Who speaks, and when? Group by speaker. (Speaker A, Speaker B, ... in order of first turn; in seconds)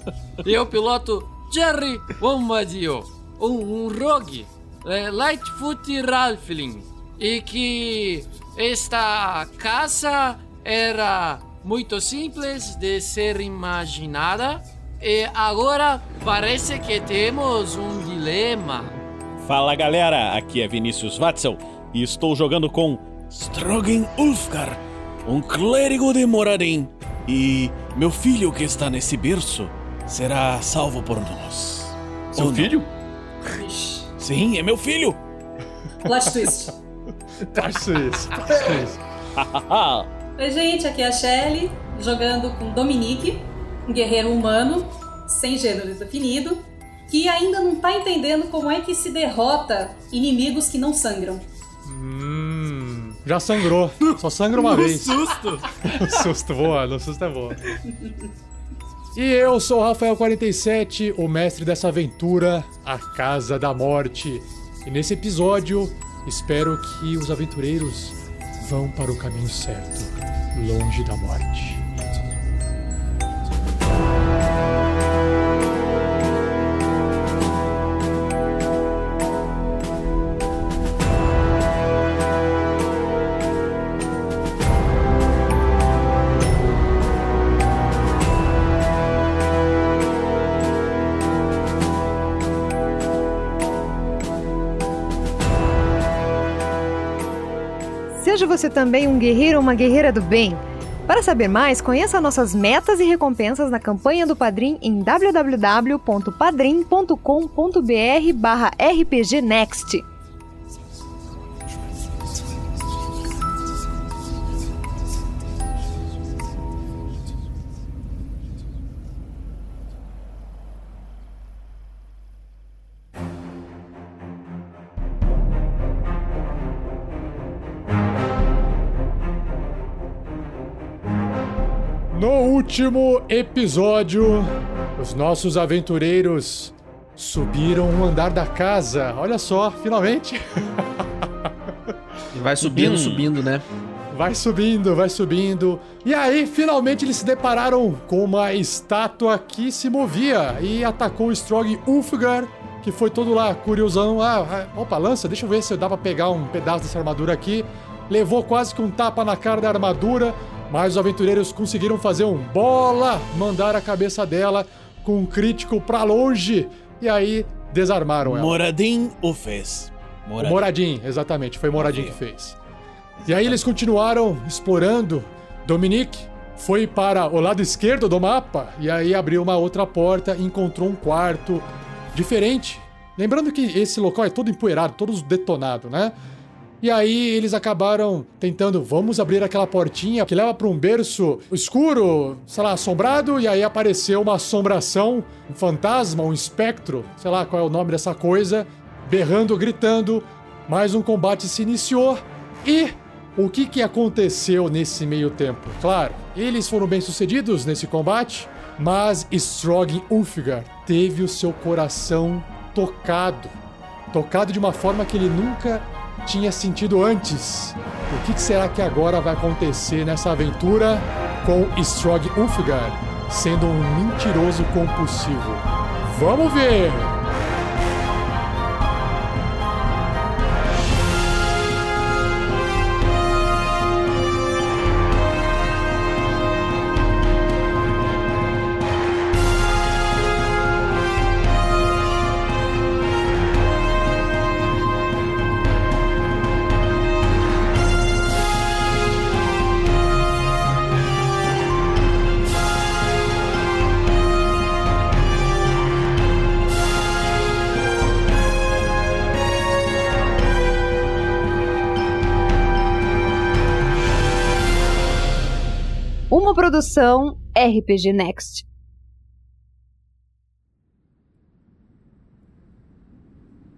Speaker A: 0.4-19.0, 55.1-55.6
Speaker B: 19.4-32.8, 34.2-35.2, 39.4-40.1, 142.6-143.3, 168.2-170.7, 171.8-172.2, 173.2-173.6
Speaker C: 32.3-32.9, 142.3-143.7
Speaker D: 33.5-34.1, 36.0-36.8, 40.4-51.5, 57.9-58.3
Speaker E: 37.5-39.0, 51.9-55.2, 55.9-57.6, 59.1-71.8, 132.1-140.9, 144.1-168.6, 170.4-172.6, 173.3-186.2, 186.8-213.6, 214.1-227.2
Speaker F: 98.1-110.1, 266.3-268.7